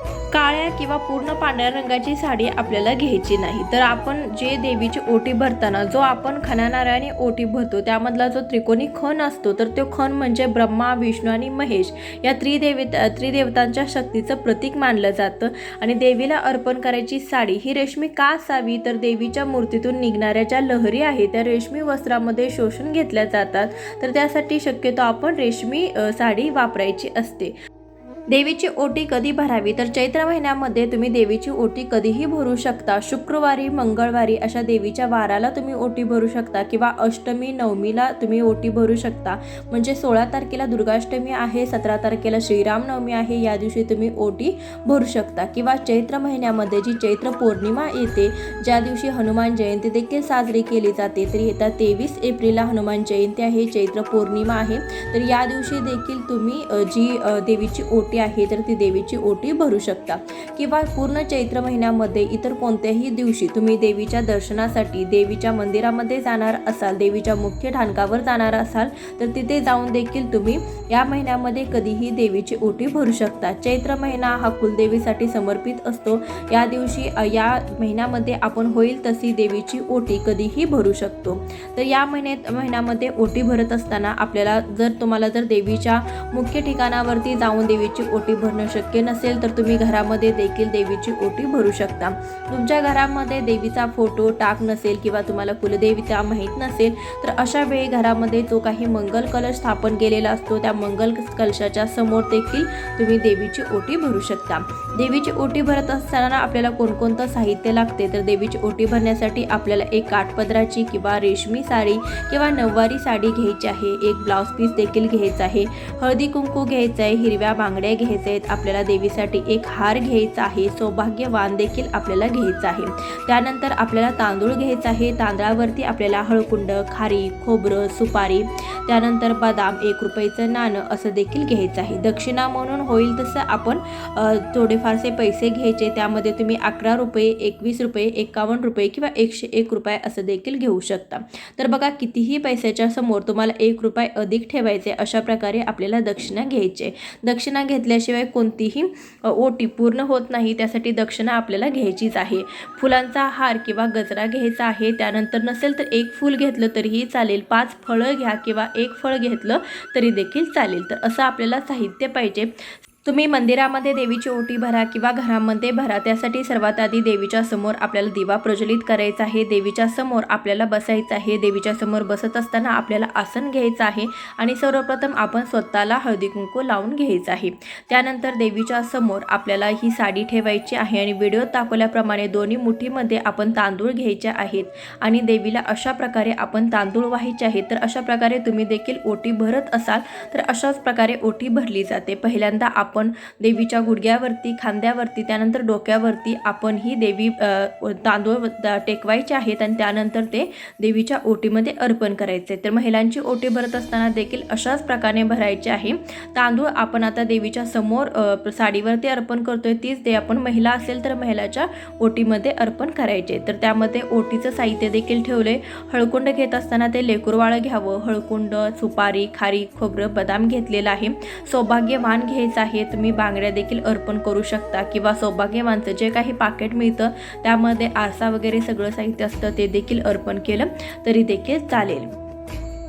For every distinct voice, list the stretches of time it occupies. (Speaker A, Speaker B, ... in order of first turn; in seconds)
Speaker A: 0.3-27.5, 28.3-162.5, 163.0-232.1